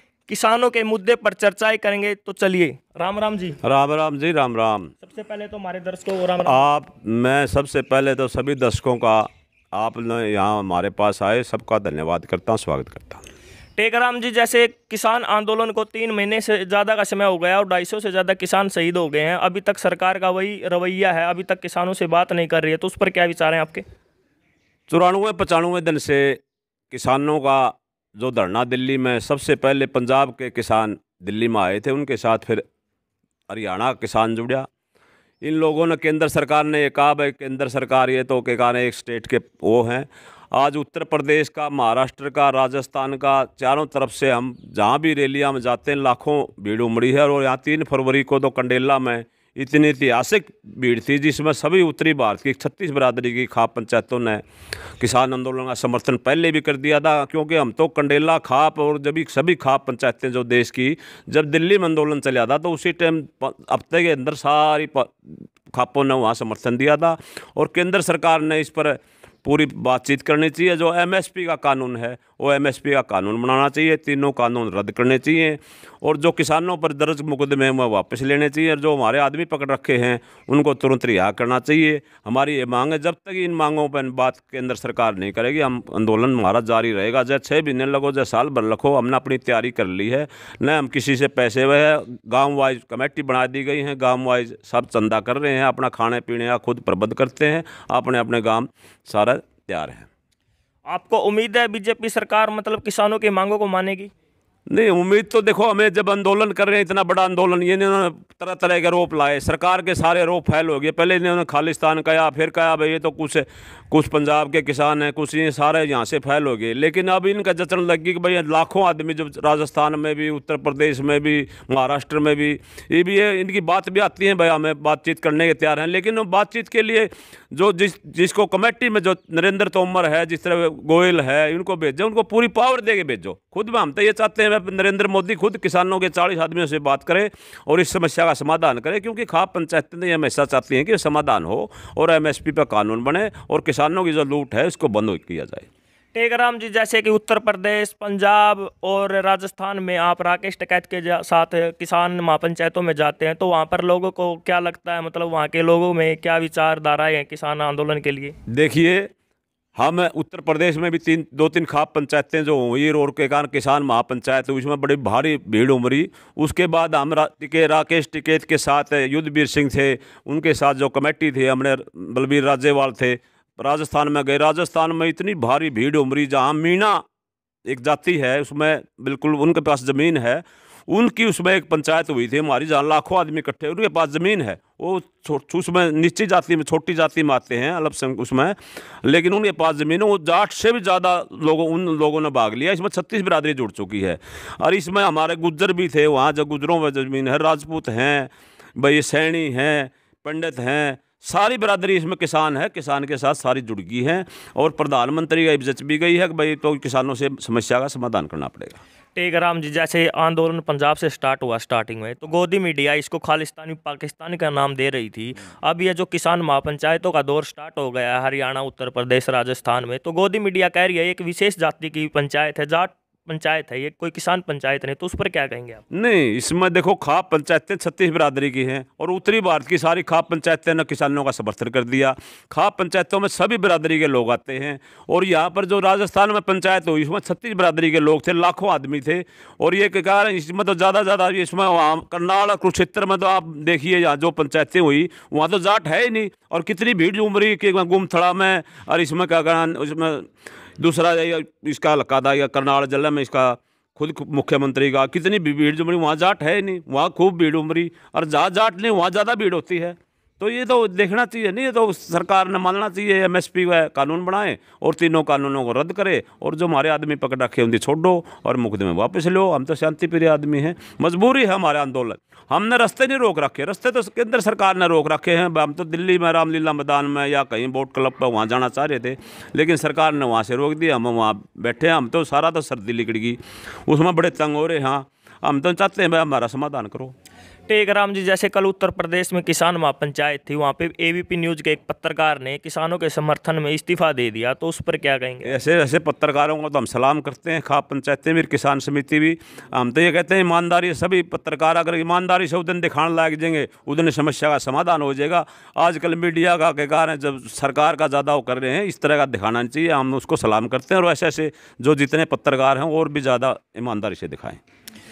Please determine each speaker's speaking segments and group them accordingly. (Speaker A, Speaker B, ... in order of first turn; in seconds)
Speaker A: 0.3-3.6, 5.0-6.7, 13.8-23.8, 100.8-104.1, 146.1-158.4, 209.1-225.8, 287.7-295.5
Speaker B: 3.6-4.9, 6.4-13.2, 24.9-26.4, 26.9-32.6, 33.5-34.7, 35.4-54.4, 55.0-100.1, 104.7-145.7, 158.5-159.1, 159.8-177.0, 177.7-208.8, 225.9-287.1, 295.4-314.6